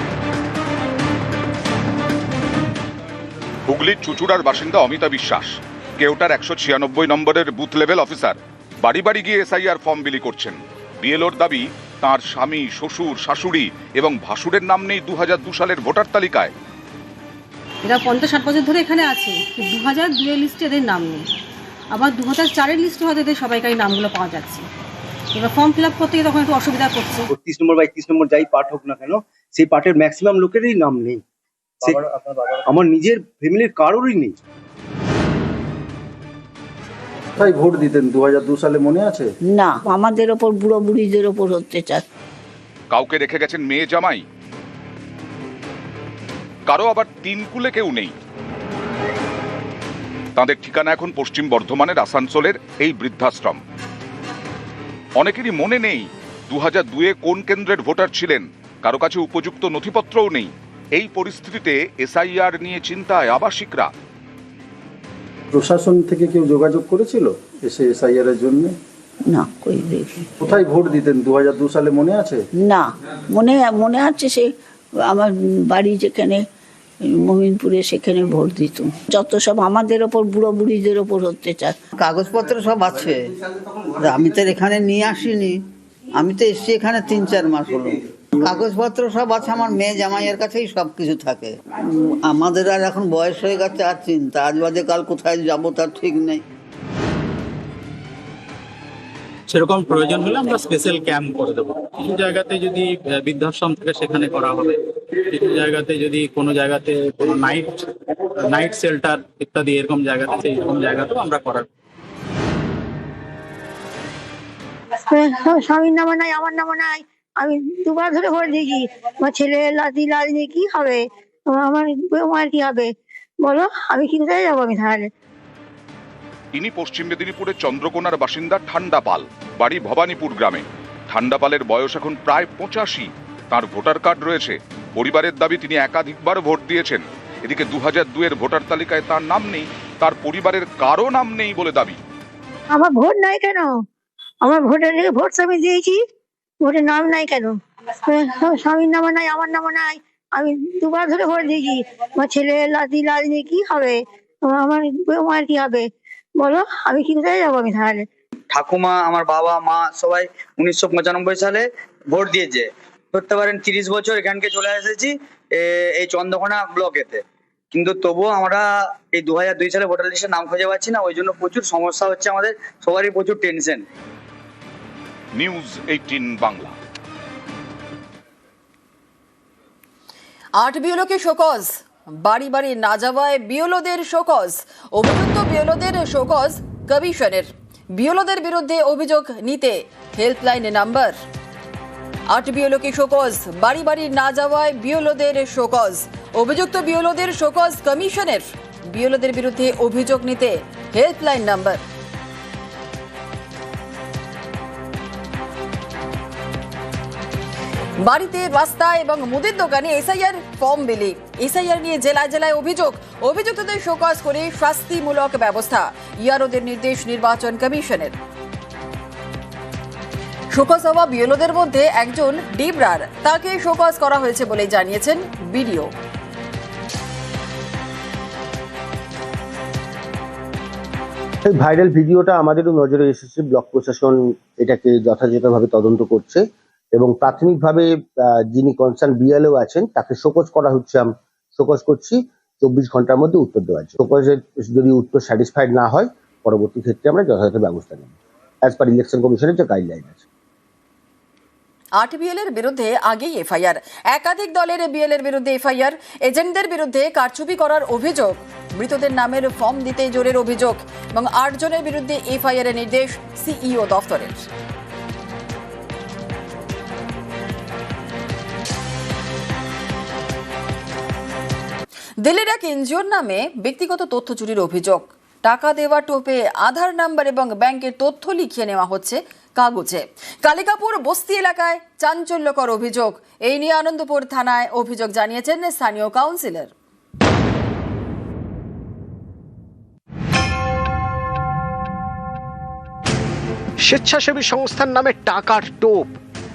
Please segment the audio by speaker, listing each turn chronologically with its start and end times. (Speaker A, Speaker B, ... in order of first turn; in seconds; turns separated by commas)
Speaker A: 3.7-16.5, Speaker B: 17.8-21.3, Speaker B: 21.9-24.7, Speaker B: 25.3-27.2, Speaker C: 27.3-31.2, Speaker C: 31.8-34.4, Speaker D: 37.4-39.3, Speaker E: 39.5-42.0, Speaker A: 42.9-44.2, Speaker A: 46.7-48.1, Speaker A: 50.4-53.6, Speaker A: 55.2-63.9, Speaker D: 65.5-68.7, Speaker E: 69.3-70.1, Speaker D: 70.4-72.4, Speaker E: 72.6-74.5, Speaker E: 75.1-76.4, Speaker E: 77.1-81.8, Speaker F: 82.0-83.3, Speaker F: 84.0-85.6, Speaker F: 86.1-96.4, Speaker G: 99.5-104.8, Speaker G: 105.3-107.8, Speaker G: 108.5-111.7, Speaker H: 115.0-125.1, Speaker A: 126.5-142.0, Speaker H: 142.7-143.8, Speaker H: 144.4-146.0, Speaker H: 146.6-158.1, Speaker I: 158.6-161.6, Speaker I: 162.1-162.6, Speaker I: 163.2-167.2, Speaker I: 167.8-173.8, Speaker A: 175.4-176.8, Speaker J: 180.6-191.2, Speaker J: 192.3-201.8, Speaker J: 208.0-218.1, Speaker J: 220.5-225.9, Speaker K: 231.4-250.2, Speaker J: 252.0-264.4, Speaker J: 272.2-286.7, Speaker L: 293.9-296.1